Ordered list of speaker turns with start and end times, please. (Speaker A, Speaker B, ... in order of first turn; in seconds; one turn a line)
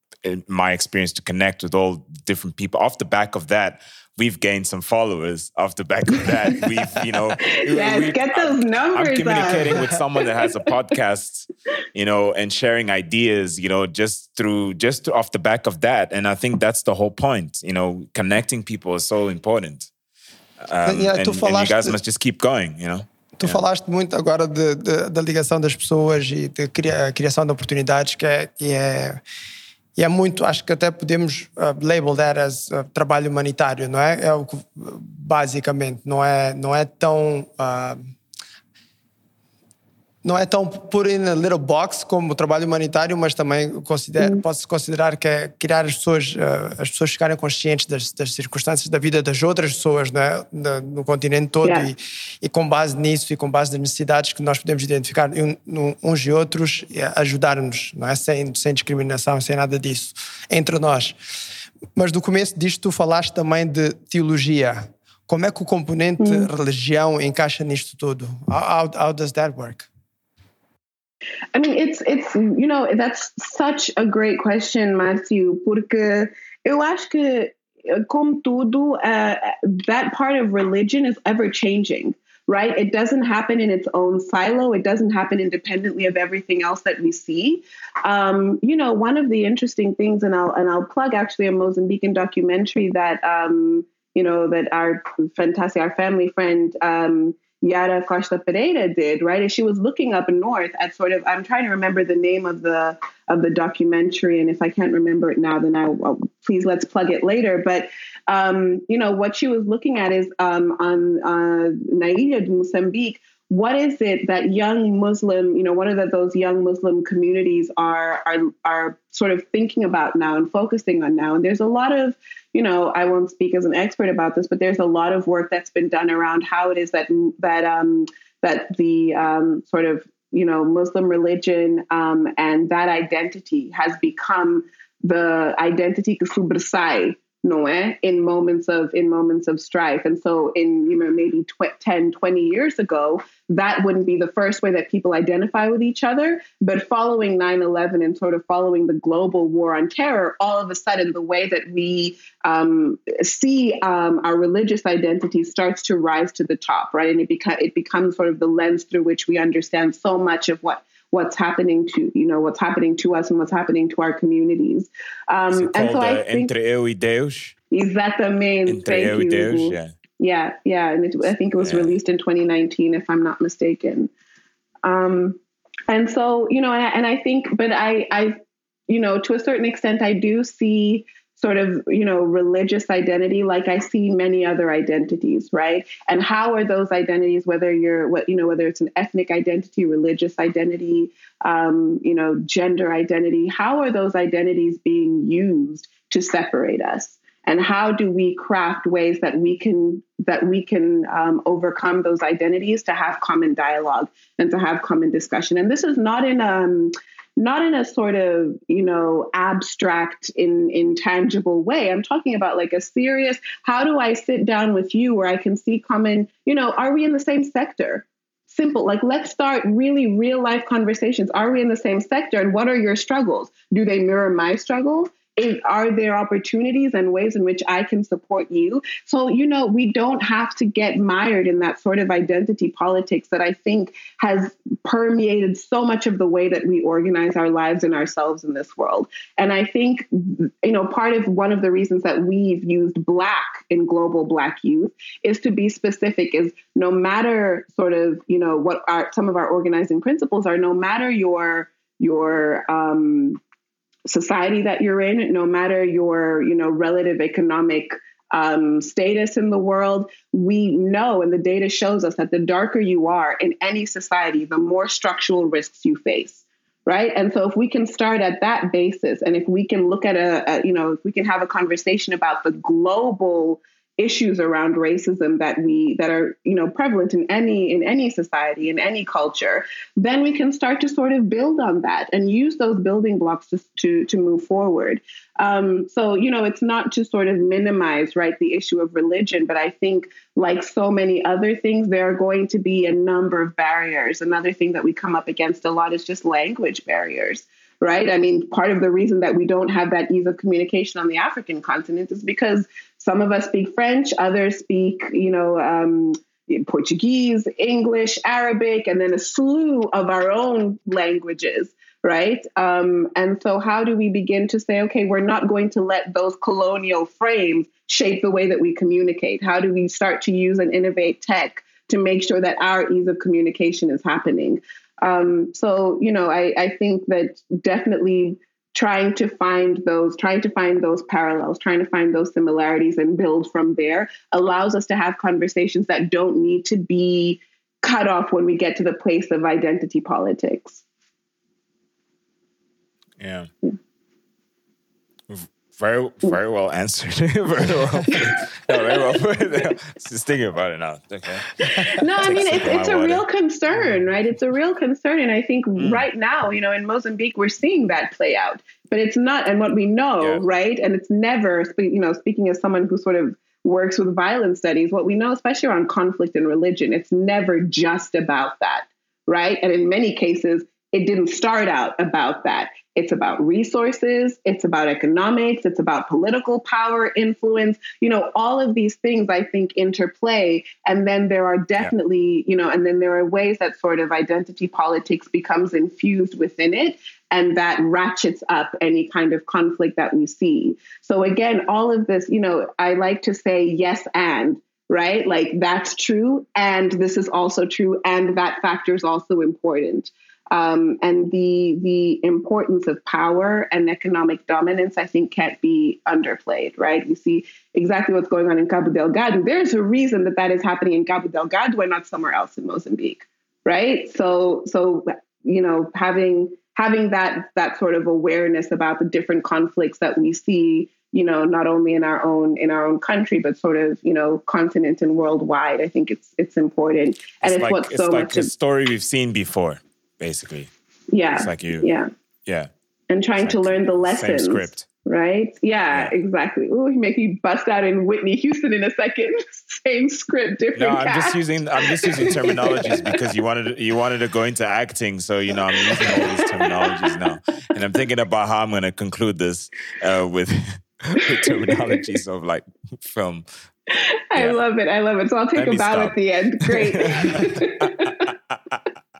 Speaker A: 0.2-19.9
Speaker B: 7.5-10.2
Speaker A: 20.6-23.6
Speaker C: 20.9-22.0
Speaker C: 23.4-29.2
Speaker C: 30.0-38.0
Speaker C: 40.2-61.1
Speaker B: 51.6-51.9
Speaker C: 62.0-69.9
Speaker B: 66.2-66.5
Speaker B: 71.5-166.5
Speaker A: 165.5-167.5
Speaker B: 167.7-174.1
Speaker A: 168.7-169.9
Speaker A: 171.6-172.0
Speaker B: 174.8-178.4
Speaker B: 178.9-253.4
Speaker B: 254.1-340.8
Speaker A: 343.2-343.5
Speaker A: 345.3-353.2
Speaker B: 348.1-349.1
Speaker B: 351.6-428.5
Speaker A: 355.8-356.1
Speaker A: 427.4-430.7
Speaker B: 431.1-432.1
Speaker A: 431.3-431.9
Speaker B: 433.1-443.1
Speaker A: 433.4-434.9
Speaker A: 440.8-453.4
Speaker B: 445.8-447.1
Speaker B: 451.4-451.8
Speaker B: 453.9-458.3
Speaker A: 454.3-454.6
Speaker A: 455.5-458.8